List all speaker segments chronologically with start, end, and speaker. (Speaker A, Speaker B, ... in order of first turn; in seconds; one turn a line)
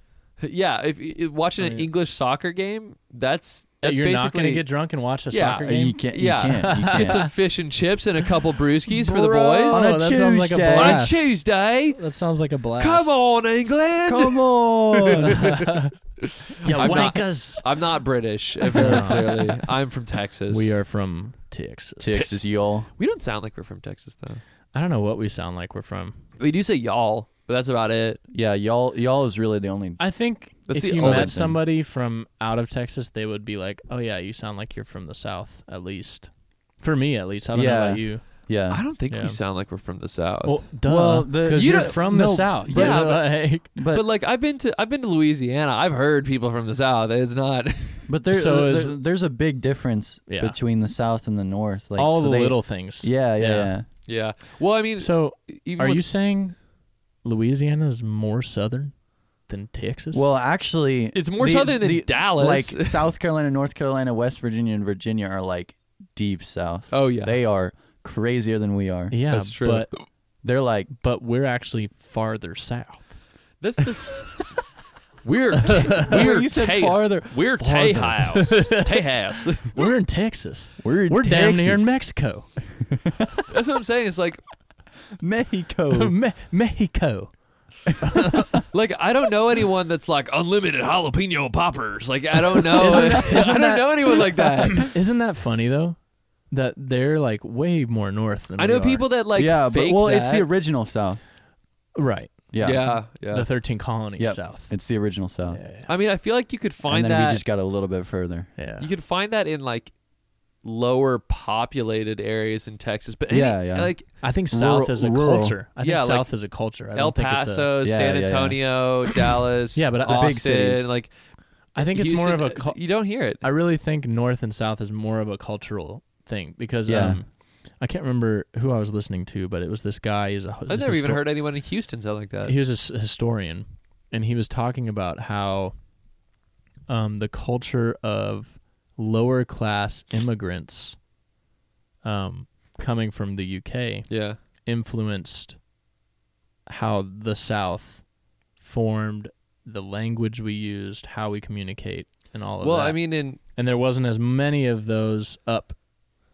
Speaker A: 0.4-4.7
Speaker B: 1.6-1.9
Speaker B: 3.8-6.0
Speaker A: 5.3-9.9
Speaker C: 5.6-7.3
Speaker B: 6.5-7.3
Speaker B: 9.0-13.1
Speaker C: 9.6-11.1
Speaker A: 10.7-12.0
Speaker A: 12.8-20.7
Speaker C: 14.1-15.4
Speaker B: 15.2-15.9
Speaker B: 16.6-17.7
Speaker B: 18.7-19.6
Speaker B: 20.5-22.3
Speaker C: 22.0-22.9
Speaker A: 23.0-24.4
Speaker B: 24.7-26.2
Speaker A: 26.4-28.2
Speaker C: 28.3-30.0
Speaker B: 30.0-38.2
Speaker A: 30.7-31.3
Speaker C: 30.8-31.6
Speaker C: 37.5-38.8
Speaker A: 38.7-40.6
Speaker B: 39.1-39.4
Speaker B: 40.4-43.7
Speaker C: 40.9-43.0
Speaker A: 41.5-48.1
Speaker C: 43.7-44.0
Speaker C: 48.1-53.8
Speaker B: 48.3-49.0
Speaker B: 50.3-50.5
Speaker B: 52.0-53.7
Speaker A: 54.0-56.0
Speaker B: 55.0-56.6
Speaker B: 57.2-58.9
Speaker B: 59.5-60.3
Speaker C: 60.1-69.1
Speaker A: 61.1-63.0
Speaker A: 66.9-67.3
Speaker B: 69.1-69.9
Speaker A: 69.3-70.0
Speaker C: 70.4-70.9
Speaker B: 71.0-73.1
Speaker A: 73.6-74.5
Speaker A: 75.2-79.8
Speaker C: 76.0-78.3
Speaker B: 78.3-79.0
Speaker B: 79.6-82.5
Speaker C: 80.8-81.9
Speaker C: 82.9-83.4
Speaker A: 83.5-84.4
Speaker C: 85.2-86.1
Speaker B: 85.9-87.3
Speaker C: 87.9-88.5
Speaker B: 88.0-88.6
Speaker A: 88.7-94.9
Speaker B: 92.7-96.0
Speaker C: 92.8-93.6
Speaker B: 96.5-99.0
Speaker A: 98.6-100.5
Speaker C: 99.3-101.2
Speaker B: 102.0-104.7
Speaker C: 102.5-102.8
Speaker A: 102.6-103.5
Speaker C: 104.2-105.6
Speaker B: 105.5-105.9
Speaker A: 105.8-107.4
Speaker C: 106.8-108.5
Speaker B: 108.6-108.9
Speaker A: 108.8-109.9
Speaker A: 110.6-114.1
Speaker C: 113.3-115.5
Speaker B: 114.2-117.7
Speaker A: 115.8-116.3
Speaker A: 116.9-121.1
Speaker C: 117.8-118.6
Speaker B: 119.8-120.4
Speaker C: 120.0-120.9
Speaker A: 121.7-123.4
Speaker B: 121.8-131.2
Speaker C: 126.8-127.2
Speaker A: 130.7-132.6
Speaker B: 132.4-135.7
Speaker B: 136.9-141.0
Speaker B: 142.0-145.6
Speaker A: 144.1-144.4
Speaker B: 146.7-155.8
Speaker A: 152.6-153.4